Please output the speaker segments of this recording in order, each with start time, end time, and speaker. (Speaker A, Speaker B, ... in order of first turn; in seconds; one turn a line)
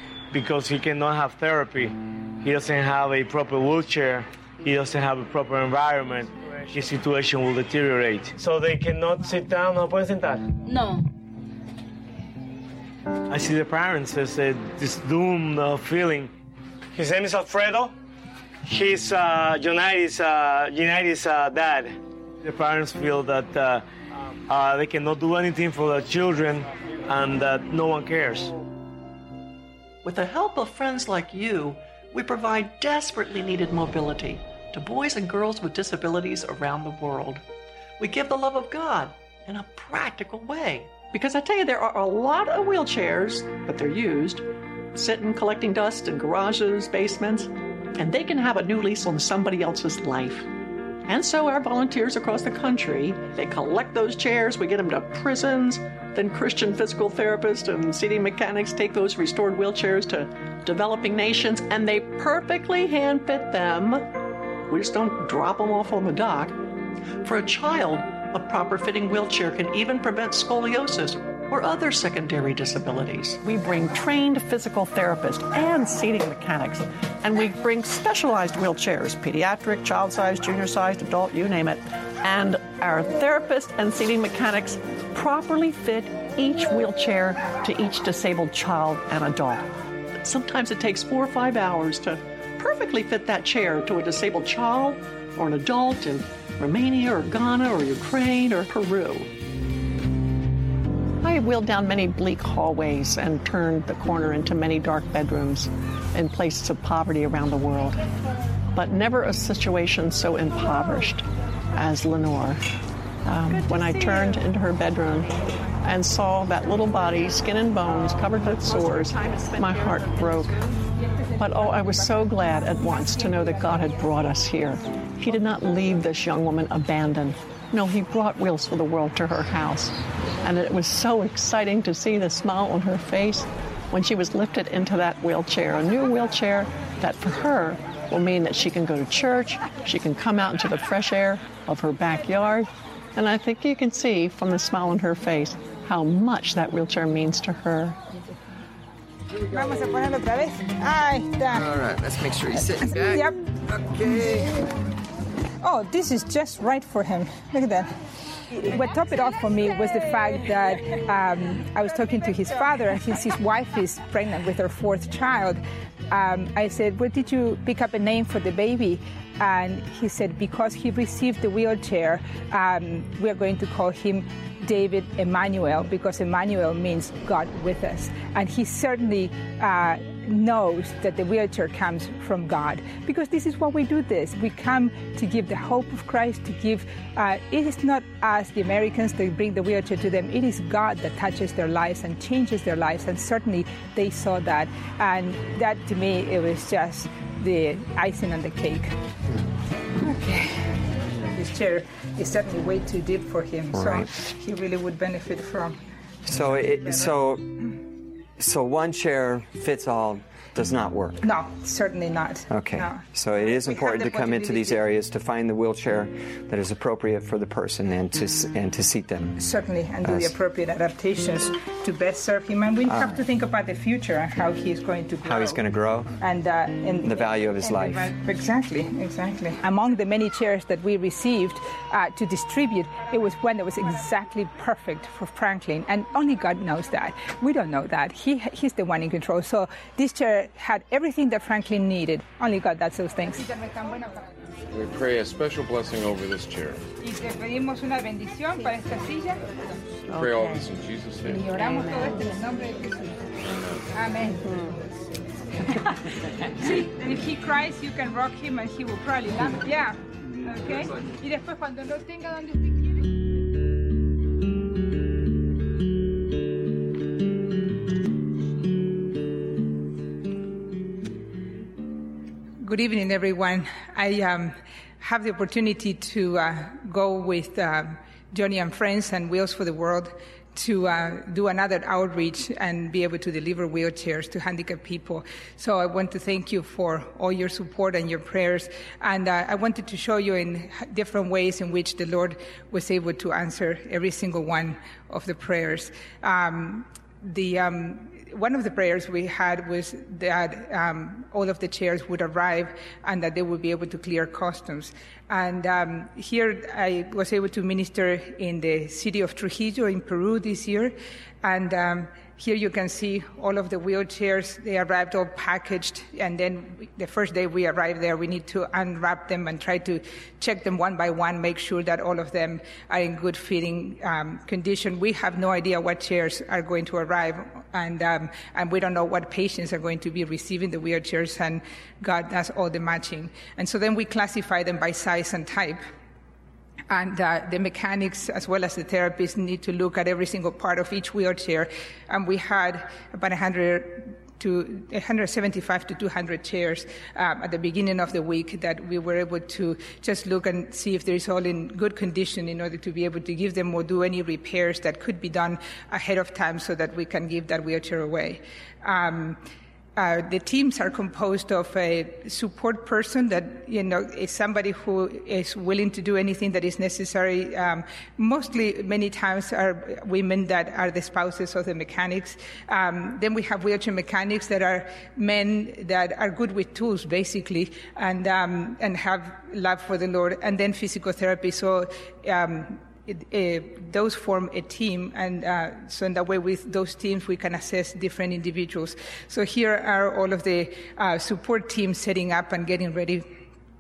Speaker A: 0.3-10.6
Speaker A: 13.3-16.3
Speaker A: 16.9-17.9
Speaker A: 18.6-23.9
Speaker A: 24.5-28.5
Speaker B: 30.0-37.4
Speaker B: 38.0-50.5
Speaker B: 51.1-66.6
Speaker B: 67.2-89.7
Speaker B: 90.2-99.3
Speaker B: 101.2-108.0
Speaker B: 108.8-112.6
Speaker B: 113.2-120.6
Speaker B: 121.4-148.0
Speaker C: 149.5-151.9
Speaker C: 152.5-154.7
Speaker C: 155.6-158.0
Speaker C: 158.5-198.9
Speaker C: 200.0-205.8
Speaker D: 203.7-204.1
Speaker D: 206.2-207.7
Speaker D: 208.4-211.2
Speaker C: 211.2-214.8
Speaker D: 212.5-219.4
Speaker C: 219.4-225.6
Speaker D: 220.0-220.3
Speaker D: 222.9-223.2
Speaker D: 225.2-226.1
Speaker C: 226.2-244.3
Speaker D: 227.0-228.1
Speaker E: 244.7-246.8
Speaker C: 247.0-249.7
Speaker E: 250.1-251.5
Speaker C: 251.3-253.4
Speaker E: 253.4-253.8
Speaker C: 253.9-254.8
Speaker C: 255.7-263.0
Speaker C: 272.6-335.8
Speaker C: 336.9-359.4
Speaker C: 360.0-393.3